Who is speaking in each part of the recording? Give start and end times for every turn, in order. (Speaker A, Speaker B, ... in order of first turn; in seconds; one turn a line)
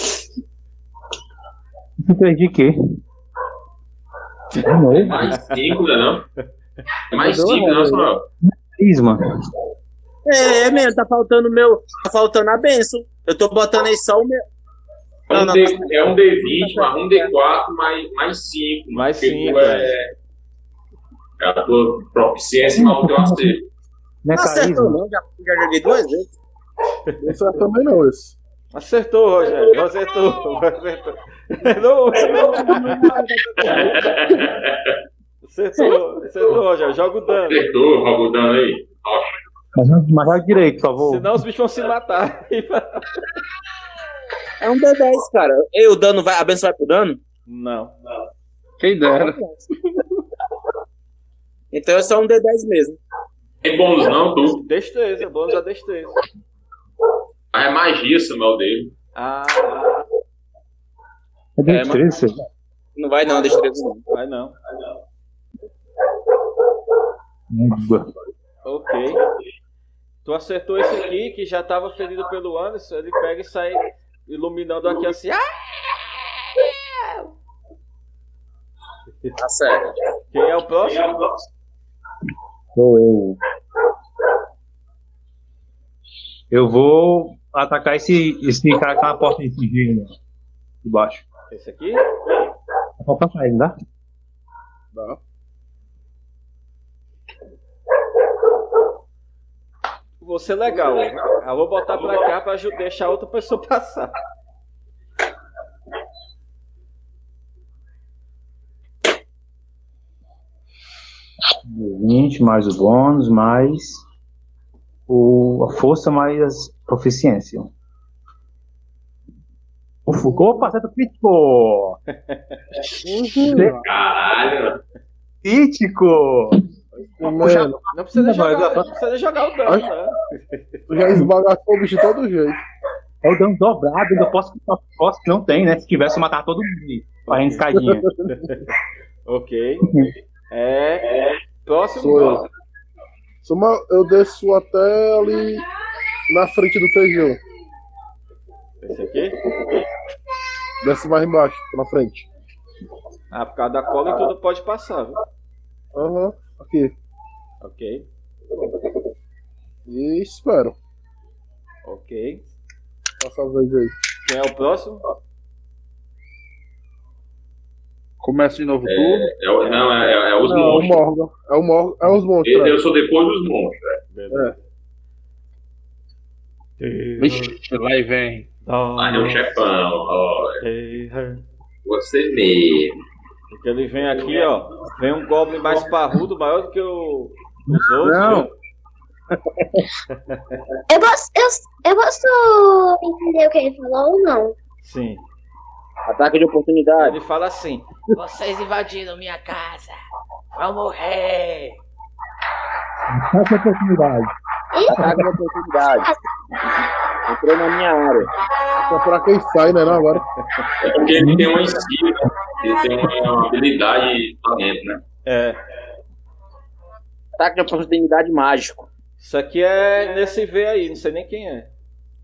Speaker A: 2.0-2.8
Speaker B: 4.5-5.5
Speaker A: 4.6-5.3
Speaker C: 5.0-6.2
Speaker C: 7.1-8.2
Speaker D: 7.2-8.1
Speaker A: 8.4-9.2
Speaker E: 10.2-14.4
Speaker C: 15.3-20.1
Speaker E: 15.3-17.3
Speaker B: 18.9-19.9
Speaker C: 21.4-23.6
Speaker A: 22.8-23.6
Speaker A: 24.2-25.0
Speaker E: 24.4-26.3
Speaker D: 27.2-28.4
Speaker B: 28.7-33.1
Speaker E: 32.2-34.1
Speaker C: 33.6-34.9
Speaker B: 35.4-37.6
Speaker C: 37.5-39.3
Speaker A: 39.8-41.4
Speaker B: 41.0-43.2
Speaker E: 44.6-47.2
Speaker B: 47.5-47.9
Speaker F: 48.8-49.4
Speaker E: 49.0-49.6
Speaker E: 51.7-53.0
Speaker C: 53.6-54.6
Speaker B: 54.5-56.2
Speaker C: 57.5-58.9
Speaker B: 59.1-59.9
Speaker A: 61.6-62.5
Speaker E: 61.7-62.0
Speaker E: 63.0-64.0
Speaker B: 64.1-64.5
Speaker A: 67.5-68.1
Speaker B: 68.7-69.2
Speaker B: 70.2-77.3
Speaker E: 79.4-79.9
Speaker B: 80.3-81.2
Speaker A: 82.7-83.4
Speaker A: 86.5-90.1
Speaker A: 90.8-91.3
Speaker B: 91.5-92.0
Speaker A: 93.0-93.7
Speaker D: 94.9-95.2
Speaker B: 100.2-104.1
Speaker A: 111.7-114.0
Speaker A: 115.1-117.7
Speaker A: 120.1-122.0
Speaker B: 122.3-122.6
Speaker D: 123.0-123.8
Speaker A: 123.4-123.8
Speaker C: 123.8-124.8
Speaker A: 125.4-126.6
Speaker D: 127.0-127.8
Speaker A: 127.4-128.9
Speaker B: 127.9-130.8
Speaker D: 130.9-132.6
Speaker A: 133.2-138.1
Speaker B: 137.3-137.7
Speaker B: 138.3-138.7
Speaker B: 139.3-139.9
Speaker A: 139.8-140.1
Speaker B: 140.5-142.5
Speaker D: 142.0-142.5
Speaker D: 143.4-145.6
Speaker D: 146.3-147.4
Speaker B: 148.8-149.4
Speaker D: 150.8-152.3
Speaker B: 153.3-155.2
Speaker D: 155.9-156.9
Speaker B: 157.6-158.1
Speaker D: 159.9-160.8
Speaker B: 161.9-162.5
Speaker D: 163.2-163.9
Speaker B: 164.2-165.0
Speaker F: 168.2-169.3
Speaker C: 168.9-171.0
Speaker D: 170.4-172.8
Speaker C: 172.4-174.0
Speaker B: 174.1-174.6
Speaker B: 176.8-177.5
Speaker F: 177.2-178.5
Speaker B: 178.7-179.6
Speaker C: 179.0-180.6
Speaker B: 180.6-181.4
Speaker C: 181.8-183.0
Speaker B: 183.5-188.5
Speaker A: 187.7-188.5
Speaker E: 188.1-188.5
Speaker B: 190.1-190.6
Speaker G: 190.9-194.6
Speaker B: 194.8-195.2
Speaker E: 196.1-197.2
Speaker B: 197.0-197.9
Speaker H: 198.1-200.0
Speaker H: 200.6-201.8
Speaker A: 203.1-204.3
Speaker G: 204.7-205.2
Speaker E: 204.9-206.1
Speaker E: 207.3-208.3
Speaker D: 208.8-210.2
Speaker C: 210.8-215.0
Speaker A: 211.2-211.6
Speaker B: 215.3-215.6
Speaker E: 217.4-218.9
Speaker B: 219.2-221.7